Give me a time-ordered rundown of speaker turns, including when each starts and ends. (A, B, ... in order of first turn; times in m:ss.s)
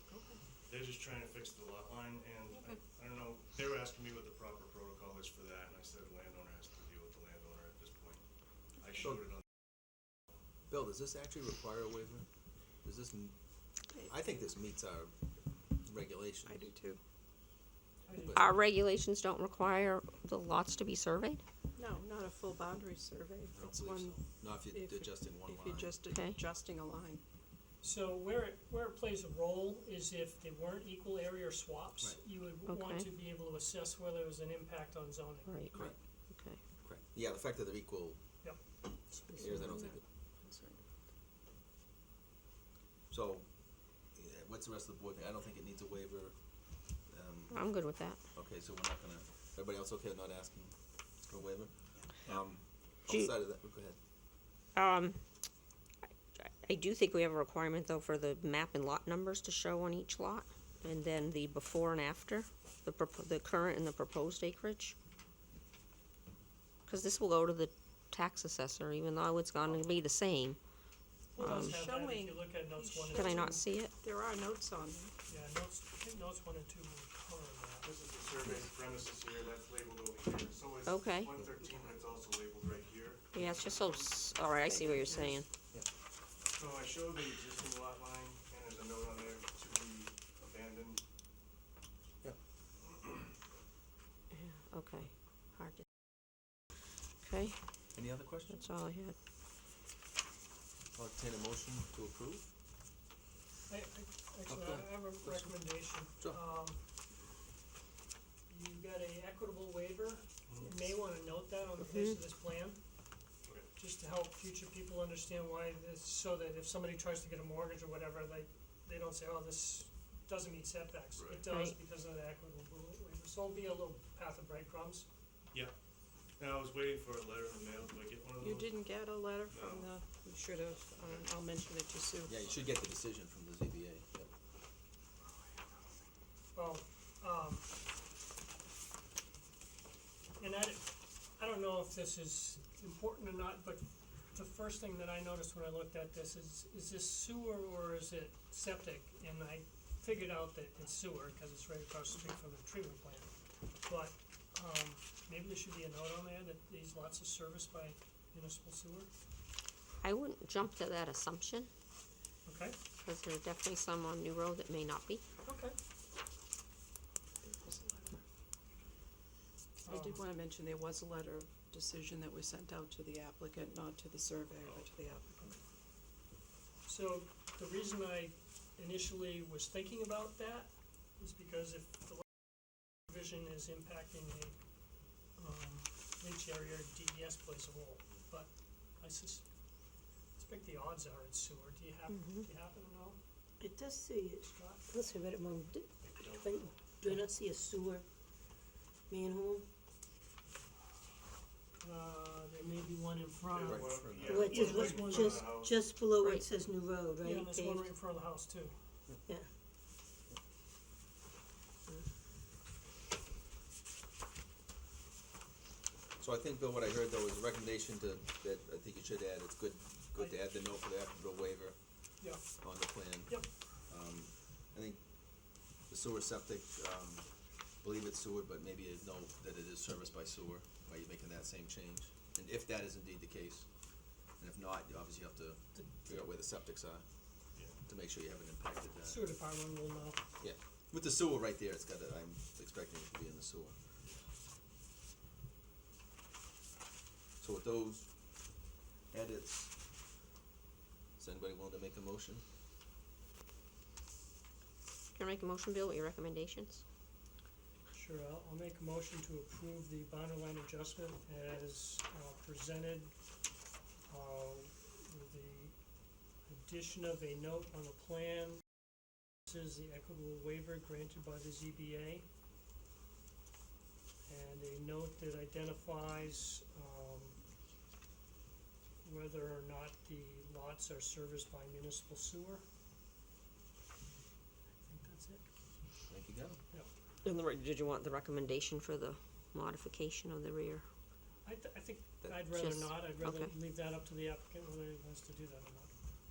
0:00.1-0:00.4 A
0:00.7-0:08.2 B
0:02.5-0:02.8 A
0:08.8-0:09.4 B
0:09.0-0:09.3 C
0:10.7-0:12.3 C
0:12.8-0:13.3 C
0:14.0-0:15.1 C
0:15.8-0:16.7 C
0:16.4-0:17.0 A
0:18.1-0:18.5 D
0:18.2-0:18.5 C
0:18.3-0:21.4 E
0:21.7-0:27.2 A
0:23.5-0:26.0 C
0:26.1-0:26.4 E
0:27.8-0:35.6 D
0:32.7-0:33.1 E
0:35.4-0:36.6 E
0:35.7-0:36.0 C
0:36.8-0:38.2 C
0:38.4-0:39.4 D
0:39.3-0:40.8 A
0:39.4-0:40.0 C
0:43.1-0:43.5 C
0:44.1-0:46.3 C
0:47.0-0:54.0 C
0:47.5-0:48.2 E
0:53.1-0:53.3 E
0:54.7-0:55.2 E
0:56.4-1:04.9 E
1:06.8-1:10.6 E
1:11.3-1:15.2 A
1:11.4-1:11.8 E
1:11.7-1:13.6 D
1:13.1-1:13.9 E
1:15.3-1:17.9 D
1:17.8-1:23.6 B
1:20.8-1:21.3 E
1:23.3-1:25.5 E
1:24.6-1:25.4 A
1:26.5-1:31.0 B
1:34.3-1:35.8 E
1:37.2-1:37.6 E
1:37.9-1:38.7 C
1:38.5-1:39.1 E
1:40.9-1:42.5 C
1:43.7-1:46.8 D
1:44.5-1:46.4 C
1:48.5-1:52.8 D
1:50.5-1:50.7 B
1:50.6-1:50.9 A
1:51.8-1:52.2 E
1:53.7-2:05.1 D
2:01.1-2:01.4 B
2:01.5-2:01.8 E
2:06.4-2:08.8 B
2:08.4-2:12.4 A
2:09.5-2:09.9 B
2:11.0-2:11.3 B
2:12.2-2:14.3 C
2:16.5-2:17.7 D
2:20.4-2:33.3 D
2:33.8-2:39.1 D
2:40.0-2:41.7 E
2:42.4-2:42.8 D
2:43.0-2:45.2 E
2:45.4-2:45.8 D
2:47.4-2:48.2 A
2:49.8-2:50.2 D
2:49.8-2:55.4 A
2:54.6-2:54.9 B
2:56.8-3:02.4 D
3:03.0-3:04.6 D
3:05.4-3:09.4 D
3:10.4-3:13.2 D
3:12.1-3:12.5 E
3:13.6-3:18.0 F
3:14.4-3:14.9 D
3:16.0-3:16.8 B
3:19.1-3:19.6 F
3:21.8-3:25.4 D
3:23.5-3:25.7 B
3:23.6-3:24.6 C
3:24.2-3:28.0 F
3:26.2-3:26.4 E
3:27.2-3:28.7 D
3:36.2-3:41.8 C
3:42.6-3:45.0 C
3:43.3-3:43.5 D
3:45.9-3:47.2 C
3:47.8-3:53.7 C
3:54.4-3:57.0 C
3:55.7-3:56.2 D
3:57.8-3:59.3 C
3:59.0-4:00.3 D
4:00.4-4:03.8 C
4:07.4-4:08.1 C
4:09.1-4:09.7 C
4:11.2-4:12.4 C
4:15.1-4:16.8 E
4:17.9-4:23.1 D
4:24.1-4:25.7 D
4:26.5-4:28.6 D
4:29.5-4:32.2 D
4:34.3-4:37.4 D
4:39.0-4:42.6 D
4:44.8-4:45.4 D
4:46.1-4:46.6 C
4:47.2-4:50.8 E
4:51.4-4:55.9 D
4:52.5-4:53.5 E